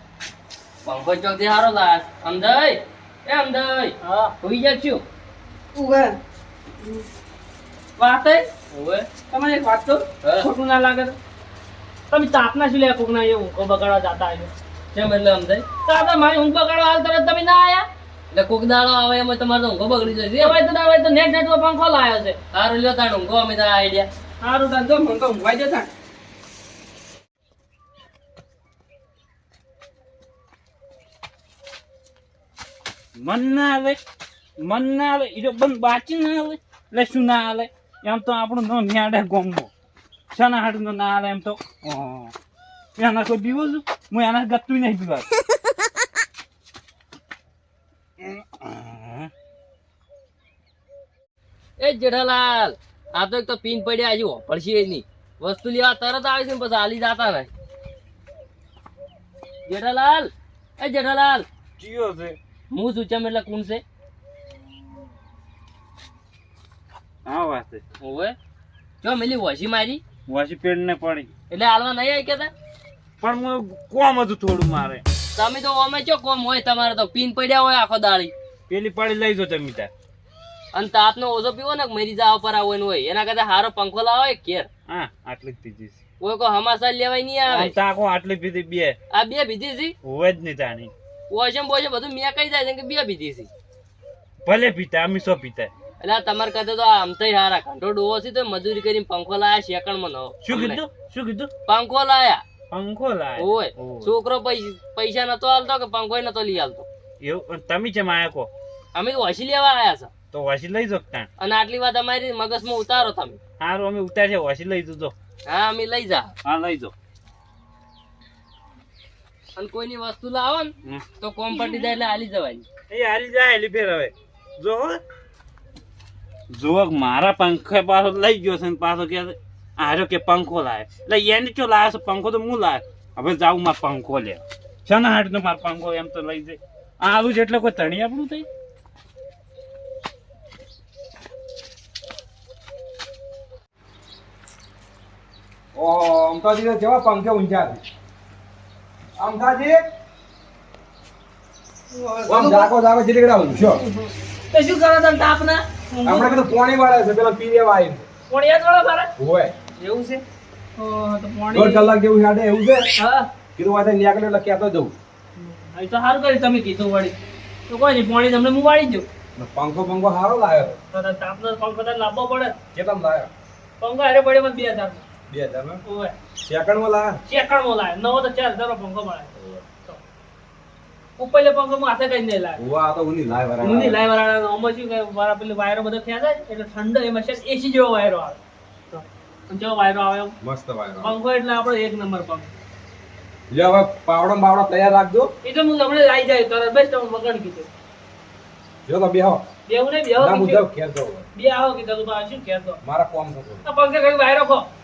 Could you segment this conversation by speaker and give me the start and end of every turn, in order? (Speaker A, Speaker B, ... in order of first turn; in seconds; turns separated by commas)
Speaker A: 0.8-5.0, Speaker B: 4.0-4.3, Speaker B: 5.7-6.1, Speaker B: 8.0-8.3, Speaker A: 8.1-9.1, Speaker B: 9.3-11.2, Speaker B: 12.1-14.5, Speaker A: 14.9-15.7, Speaker B: 15.8-17.9, Speaker A: 18.3-20.6, Speaker B: 20.4-22.4, Speaker A: 22.5-24.1, Speaker B: 24.4-25.9, Speaker C: 33.2-34.0, Speaker C: 34.6-39.7, Speaker C: 40.3-42.3, Speaker C: 43.0-45.3, Speaker C: 48.2-49.3, Speaker A: 51.8-57.5, Speaker A: 59.7-61.5, Speaker C: 61.8-62.4, Speaker A: 62.7-63.8, Speaker C: 67.3-67.8, Speaker A: 68.0-68.4, Speaker A: 69.0-70.0, Speaker C: 70.3-71.3, Speaker A: 71.5-72.5, Speaker C: 73.2-75.0, Speaker A: 75.3-78.3, Speaker C: 78.7-79.9, Speaker A: 80.7-84.7, Speaker C: 84.9-86.0, Speaker A: 86.2-87.7, Speaker C: 87.5-89.0, Speaker A: 89.1-90.0, Speaker C: 90.0-90.9, Speaker A: 91.3-93.5, Speaker C: 94.5-95.7, Speaker A: 96.0-100.8, Speaker C: 100.4-101.5, Speaker A: 101.7-102.4, Speaker C: 102.7-104.1, Speaker A: 103.4-106.9, Speaker C: 107.2-108.5, Speaker A: 108.9-110.1, Speaker C: 110.3-111.3, Speaker A: 111.4-113.4, Speaker C: 113.6-115.1, Speaker A: 115.5-116.3, Speaker C: 116.4-116.9, Speaker A: 119.6-122.7, Speaker C: 122.9-125.0, Speaker C: 126.5-138.5, Speaker D: 145.8-147.8, Speaker D: 149.2-149.8, Speaker B: 151.9-152.7, Speaker D: 152.3-153.8, Speaker B: 153.7-156.4, Speaker D: 156.1-158.1, Speaker B: 158.3-159.1, Speaker D: 159.2-159.5, Speaker B: 159.8-160.2, Speaker B: 160.8-161.9, Speaker D: 161.5-162.9, Speaker B: 163.0-163.3, Speaker D: 163.6-164.9, Speaker B: 165.4-167.2, Speaker B: 167.7-169.1, Speaker D: 169.4-170.8, Speaker B: 170.9-172.6, Speaker D: 172.7-173.3, Speaker B: 173.8-175.0, Speaker D: 175.3-175.8, Speaker B: 175.8-176.1, Speaker D: 176.4-177.2, Speaker B: 177.3-179.3, Speaker B: 181.2-182.6, Speaker D: 182.6-184.0, Speaker B: 183.6-188.4, Speaker B: 188.9-190.3, Speaker D: 190.4-191.2, Speaker B: 191.0-192.5, Speaker D: 193.5-195.3, Speaker B: 195.4-197.7, Speaker D: 198.9-199.4, Speaker B: 199.7-200.7, Speaker D: 200.2-201.3, Speaker B: 201.3-202.8, Speaker D: 202.8-203.7, Speaker B: 203.7-204.7